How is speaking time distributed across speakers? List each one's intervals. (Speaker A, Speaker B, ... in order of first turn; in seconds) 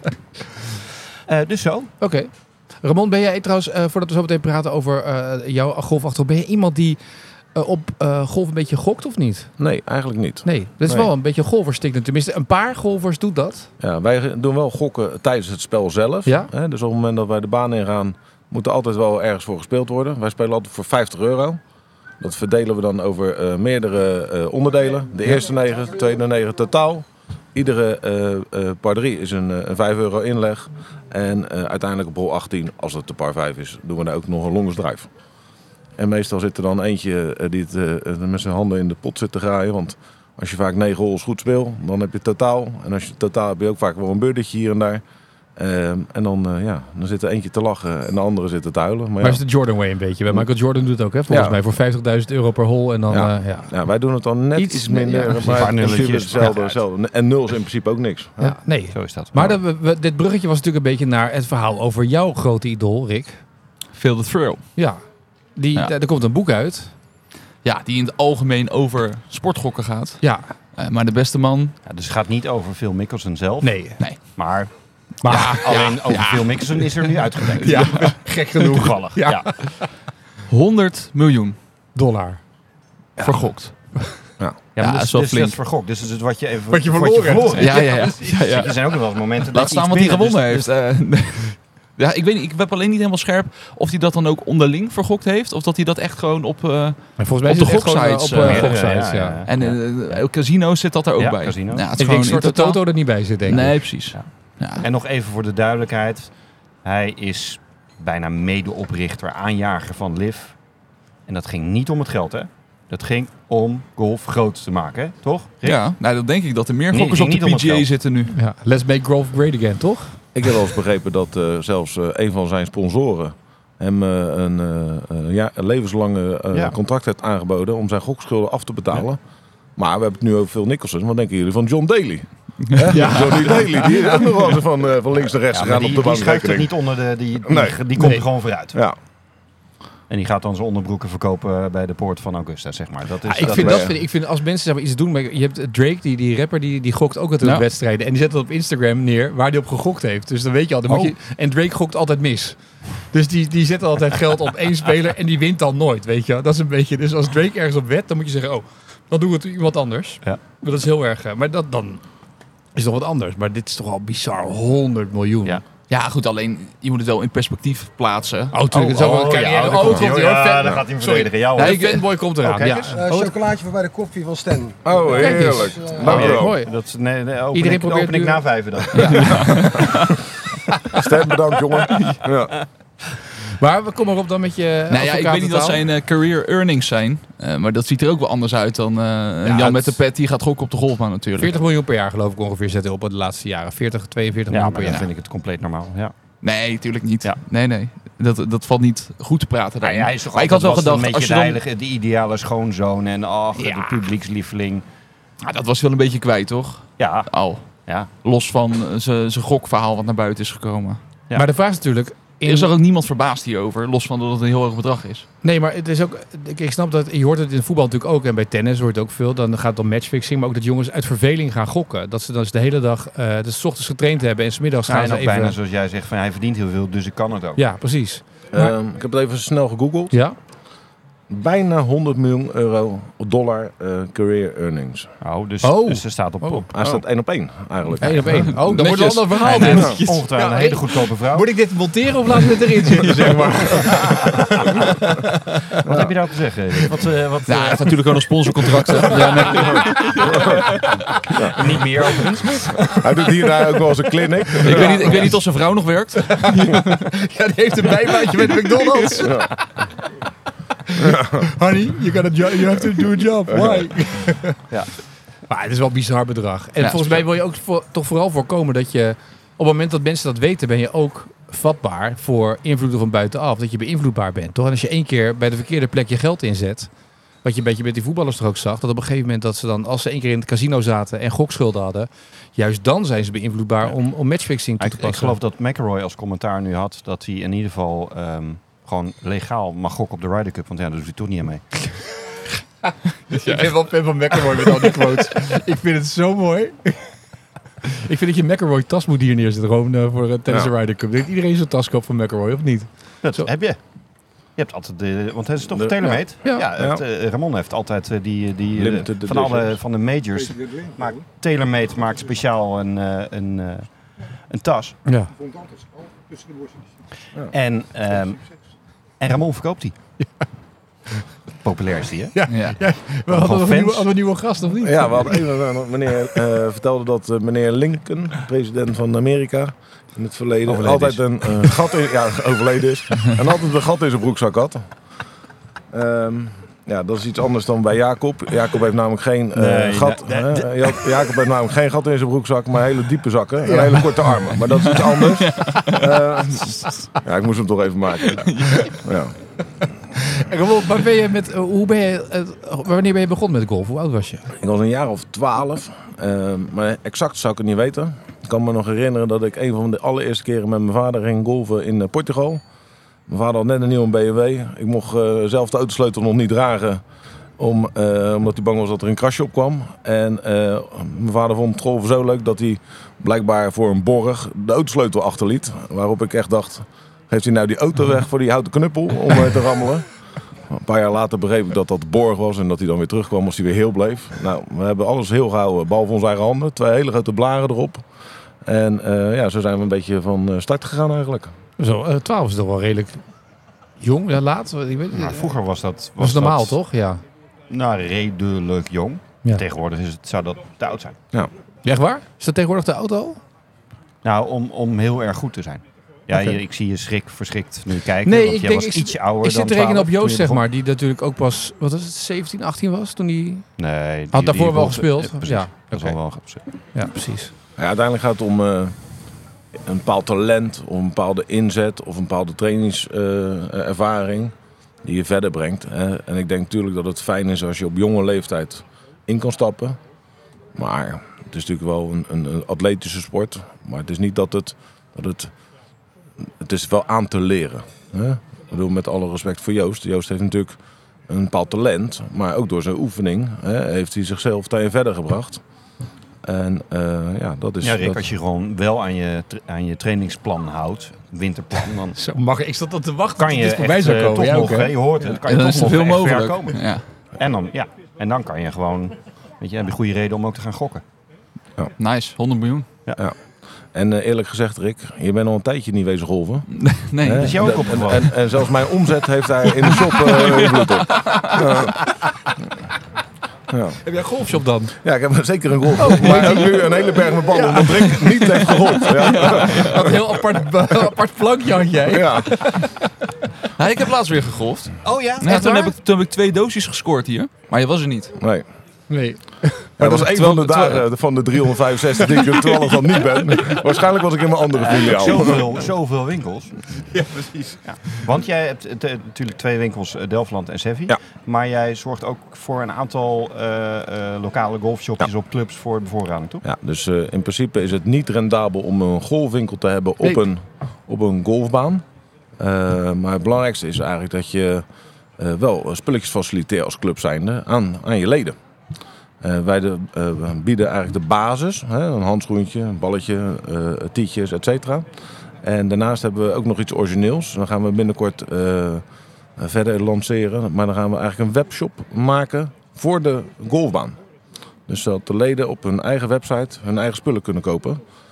Speaker A: 1.3-1.9, 55.4-56.8, 58.9-59.5, 71.8-80.0, 84.8-90.7, 98.4-100.3, 101.2-101.9, 104.1-110.7, 111.2-115.9, 116.9-117.9, 135.5-138.8, 140.1-143.9, 150.9-151.1, 168.7-172.8, 176.1-179.7, 181.7-182.3, 194.5-196.1, 199.8-204.8, 207.0-208.1, 224.9-227.7, 235.2-236.8, 239.7-241.7, 245.8-248.2, 248.9-249.6, 251.3-252.8, 284.8-292.2, 303.2-315.0, 317.5-319.9, 321.6-322.4, 322.9-324.1, 330.6-331.8, 339.5-341.3, 395.1-396.8, 397.7-401.2, 404.2-410.6, 413.8-416.6, 447.8-452.2, 453.4-461.0, 467.3-468.4, 485.0-485.9, 494.8-496.9, 497.8-506.6
Speaker B: 2.0-9.6, 10.4-13.7, 16.2-16.5, 49.2-55.7, 58.4-63.4, 64.8-67.0, 70.2-70.5, 73.6-74.4, 75.2-76.0, 77.6-79.9, 81.9-82.5, 83.3-84.1, 86.7-88.0, 97.2-99.4, 102.0-103.9, 118.3-120.3, 132.9-134.4, 138.0-138.3, 143.2-165.6, 168.5-173.3, 175.1-176.8, 177.5-179.9, 183.6-185.8, 189.4-190.0, 191.4-195.1, 203.6-204.0, 211.3-212.7, 215.4-225.6, 227.6-228.7, 230.1-230.3, 235.6-236.9, 238.0-245.3, 248.5-250.6, 252.2-253.9, 254.5-255.4, 256.4-259.5, 260.9-264.6, 265.5-285.4, 293.4-297.3, 298.0-303.5, 306.0-306.7, 315.0-315.3, 320.2-320.5, 322.3-325.6, 343.6-344.7, 350.4-354.5, 391.8-393.2, 394.0-395.5, 396.2-397.2, 401.8-403.4, 408.2-413.8, 414.3-417.5, 452.2-454.9, 474.0-474.9, 476.0-477.9, 479.4-483.1, 489.1-490.2, 492.2-493.8, 497.1-498.2
Speaker C: 9.6-11.1, 13.8-21.6, 22.2-35.1, 36.0-45.0, 45.5-49.4, 51.3-51.6, 53.1-58.6, 120.3-129.2, 129.8-136.9, 137.4-139.0, 143.4-144.0, 174.8-176.5, 180.9-182.6, 228.5-230.2, 231.3-235.1, 236.7-238.9, 239.7-240.0, 245.8-246.1, 250.3-250.6, 252.9-255.3, 259.2-259.5, 261.0-261.4, 263.5-263.9, 305.7-307.0, 308.7-309.8, 324.8-334.9, 335.9-349.4, 354.5-362.6, 363.3-367.0, 367.6-388.1, 388.6-391.5, 417.8-419.0, 419.7-430.0, 430.7-435.5, 436.4-445.6, 446.4-448.2, 463.9-471.9, 473.7-474.0, 475.0-480.1, 482.1-482.9, 488.4-488.6, 490.0-495.6, 506.6-512.0, 512.6-514.8, 515.4-518.5, 519.4-529.0, 529.5-534.2, 534.9-538.0
Speaker D: 63.9-64.8, 67.6-71.8, 75.3-78.2, 80.5-81.6, 83.2-85.5, 87.6-104.9, 115.6-118.4, 165.9-168.5, 171.6-172.1, 178.9-179.9, 181.9-182.2, 184.9-191.6, 196.4-201.6, 205.4-211.0, 212.4-215.2, 238.3-240.2, 247.5-250.9, 254.6-257.0, 258.7-259.2, 266.8-267.2, 293.3-293.7, 322.5-322.8, 345.5-345.9, 348.4-348.9, 455.3-457.1, 462.0-462.9, 466.7-467.6, 469.9-471.7, 477.9-479.9, 483.8-488.4, 490.0-491.0
Speaker E: 172.7-176.2